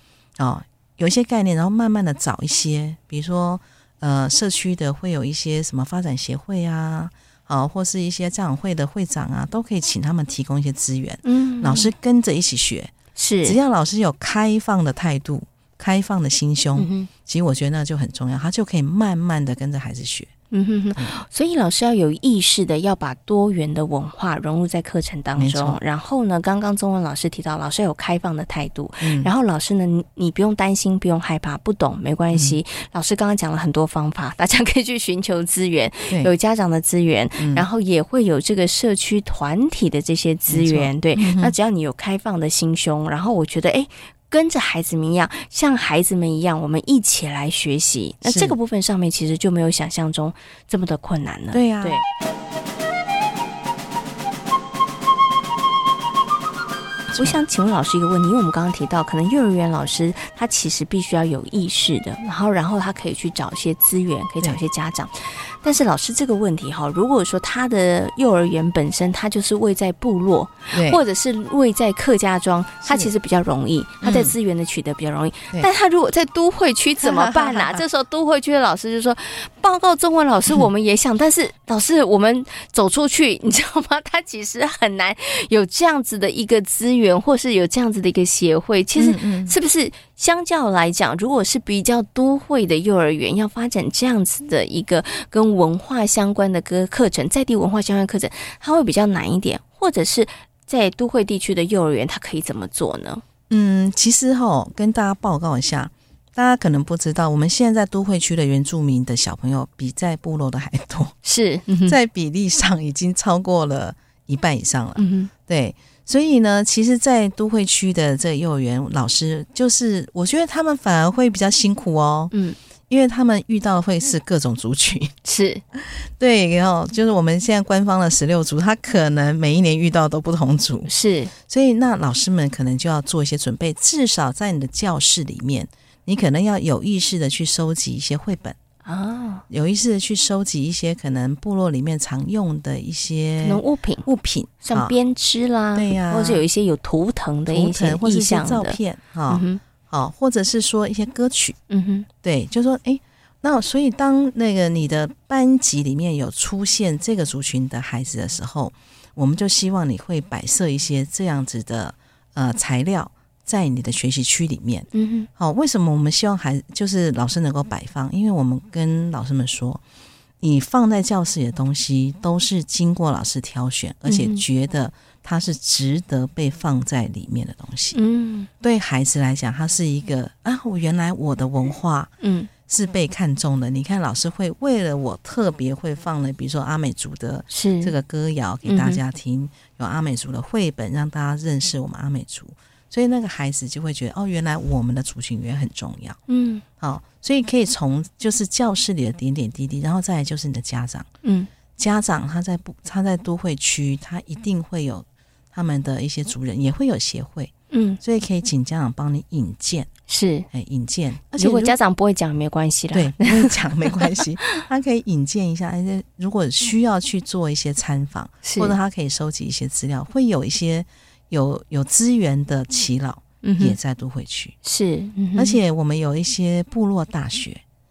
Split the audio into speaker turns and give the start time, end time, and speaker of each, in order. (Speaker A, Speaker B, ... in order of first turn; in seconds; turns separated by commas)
Speaker A: 0.4-12.9, Speaker B: 11.2-11.9, Speaker B: 13.2-13.6, Speaker A: 13.4-20.3, Speaker B: 16.8-17.1, Speaker B: 20.5-52.0, Speaker A: 25.4-25.8, Speaker A: 29.0-29.3, Speaker A: 37.4-37.7, Speaker A: 40.5-41.5, Speaker A: 48.2-48.5, Speaker A: 51.5-52.0, Speaker B: 57.2-103.2, Speaker A: 70.7-71.0, Speaker A: 72.9-73.1, Speaker A: 74.0-74.3, Speaker A: 77.0-77.8, Speaker A: 89.0-89.5, Speaker A: 103.5-111.1, Speaker B: 111.2-112.0, Speaker A: 111.9-122.3, Speaker B: 115.0-115.3, Speaker B: 122.3-122.6, Speaker A: 122.9-125.1, Speaker B: 125.2-125.6, Speaker A: 125.7-130.9, Speaker B: 130.9-131.3, Speaker A: 131.4-138.6, Speaker B: 138.8-139.4, Speaker A: 139.5-144.9, Speaker B: 143.4-144.1, Speaker B: 144.6-149.6, Speaker A: 145.8-146.4, Speaker A: 147.5-151.6, Speaker B: 151.7-152.1, Speaker A: 152.2-169.8, Speaker B: 164.9-165.3, Speaker A: 170.4-178.0, Speaker B: 174.1-174.4, Speaker B: 177.9-178.5, Speaker A: 178.6-182.1, Speaker B: 182.2-182.5, Speaker A: 182.7-196.2, Speaker B: 187.5-187.9, Speaker B: 188.7-189.0, Speaker B: 196.3-196.6, Speaker A: 196.8-201.1, Speaker B: 201.2-201.5, Speaker A: 201.8-209.9, Speaker B: 207.7-208.0, Speaker B: 210.1-210.5, Speaker A: 210.5-211.8, Speaker B: 211.4-214.5, Speaker A: 212.9-224.6, Speaker B: 218.4-218.8, Speaker B: 223.4-223.8, Speaker B: 224.6-225.6, Speaker A: 225.4-227.6